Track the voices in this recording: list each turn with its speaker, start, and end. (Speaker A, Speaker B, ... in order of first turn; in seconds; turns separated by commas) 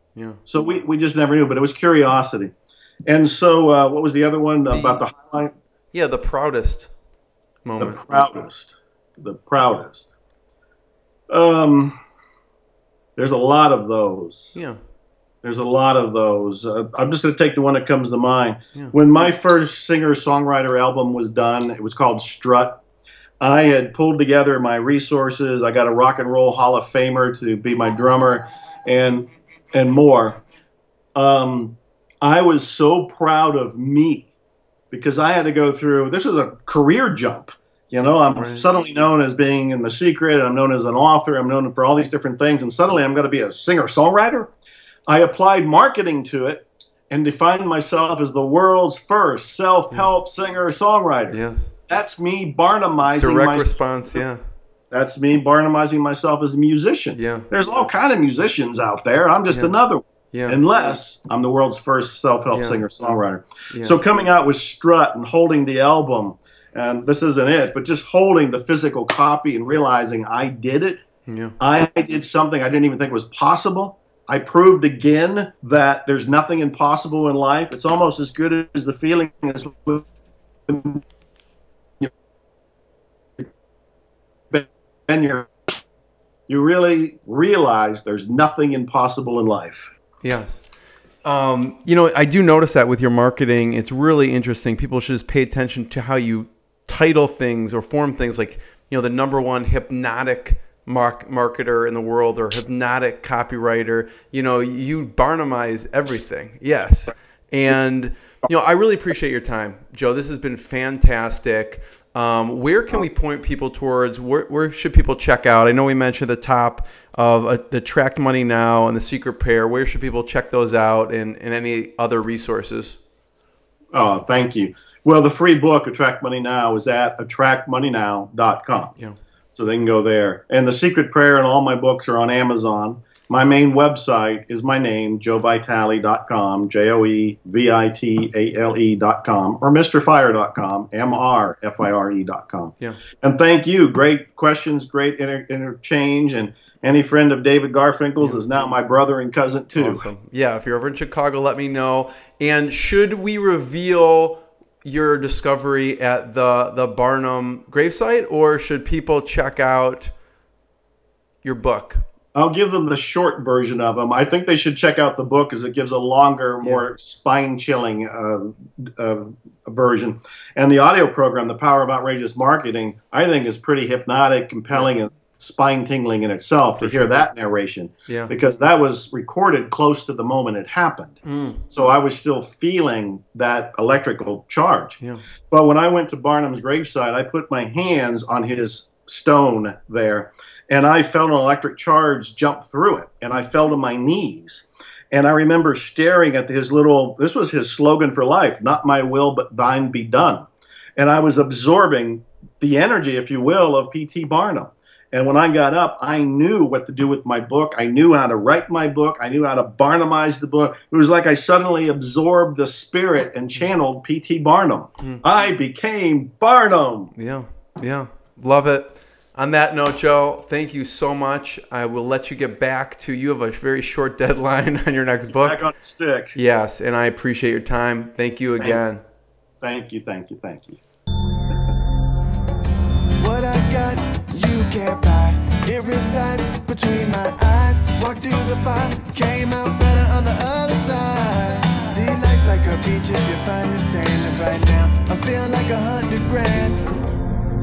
Speaker A: 0.1-0.4, Speaker B: 0.4-2.5, Speaker B: 3.1-5.5, Speaker A: 4.7-5.0, Speaker A: 5.9-6.9, Speaker A: 7.6-8.0, Speaker B: 7.8-10.1, Speaker B: 11.3-12.0, Speaker B: 13.2-14.6, Speaker A: 14.5-14.8, Speaker B: 15.4-22.8, Speaker B: 23.4-30.4, Speaker B: 31.1-34.3, Speaker B: 34.9-44.5, Speaker A: 38.4-38.6, Speaker B: 45.1-54.2, Speaker A: 51.3-51.7, Speaker A: 53.2-54.4, Speaker B: 54.9-71.0, Speaker A: 57.1-57.5, Speaker A: 60.3-60.6, Speaker A: 62.5-62.8, Speaker A: 63.7-64.0, Speaker A: 71.3-71.5, Speaker B: 71.6-80.1, Speaker B: 80.7-81.0, Speaker B: 84.5-85.7, Speaker B: 86.5-89.9, Speaker A: 90.2-90.6, Speaker A: 91.2-123.0, Speaker B: 123.9-128.9, Speaker B: 129.5-150.1, Speaker A: 149.8-160.1, Speaker A: 161.4-162.0, Speaker B: 162.3-185.0, Speaker A: 176.8-177.1, Speaker A: 181.2-181.6, Speaker B: 185.5-217.1, Speaker A: 217.2-225.6, Speaker B: 225.3-226.3, Speaker A: 226.3-229.0, Speaker B: 229.6-230.8, Speaker C: 233.2-246.9